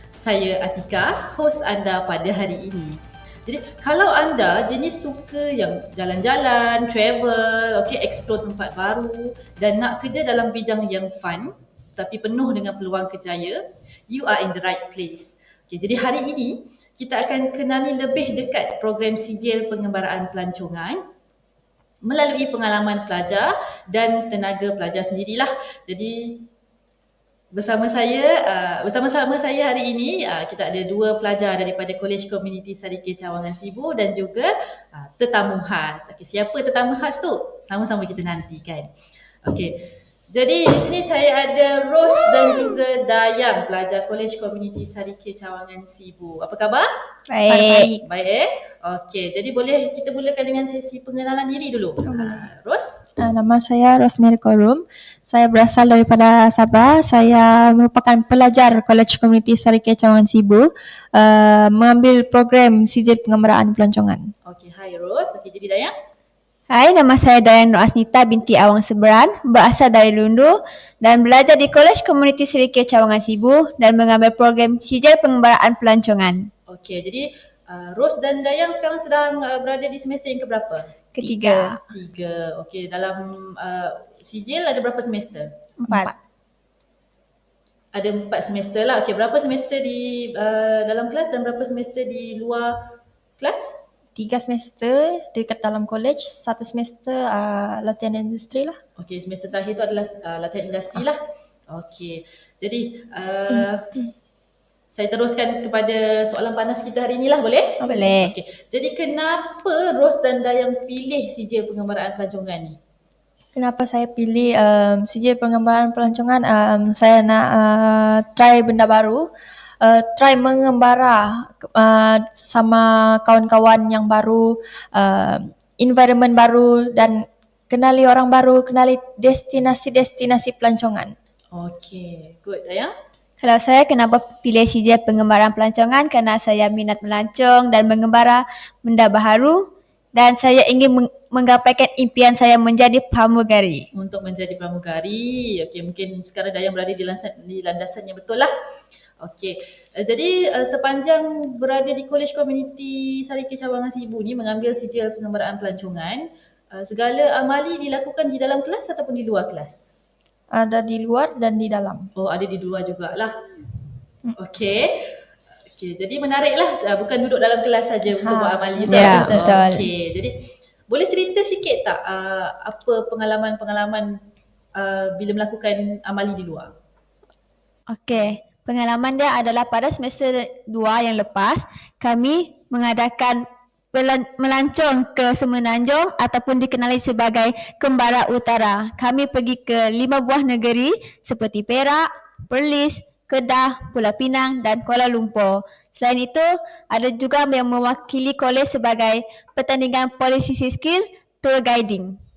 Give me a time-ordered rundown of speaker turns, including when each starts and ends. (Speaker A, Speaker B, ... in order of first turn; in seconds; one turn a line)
Speaker A: 0.2-21.0
Speaker A: 22.0-26.4
Speaker A: 27.5-38.9
Speaker A: 39.4-46.9
Speaker B: 47.3-47.9
Speaker C: 47.5-48.0
Speaker A: 48.0-52.9
Speaker C: 52.0-52.4
Speaker C: 53.2-64.2
Speaker A: 64.5-65.9
Speaker B: 66.7-76.5
Speaker A: 76.7-80.9
Speaker B: 81.1-81.8
Speaker C: 81.2-81.8
Speaker A: 81.9-85.5
Speaker B: 85.8-86.1
Speaker C: 85.9-86.2
Speaker A: 87.9-92.8
Speaker A: 93.4-93.7
Speaker C: 94.2-98.8
Speaker A: 99.0-103.8
Speaker C: 103.5-104.1
Speaker A: 104.9-112.8
Speaker C: 107.8-108.3
Speaker C: 113.5-119.3
Speaker C: 119.8-131.1
Speaker A: 131.5-132.9
Speaker B: 133.4-143.9
Speaker A: 143.9-148.5
Speaker A: 149.2-159.8
Speaker C: 160.5-162.1
Speaker A: 162.1-163.3
Speaker A: 164.4-165.1
Speaker A: 165.8-170.3
Speaker C: 168.1-169.8
Speaker B: 168.9-169.9
Speaker A: 170.9-174.2
Speaker A: 174.8-176.7
Speaker B: 177.9-202.2
Speaker A: 178.1-178.4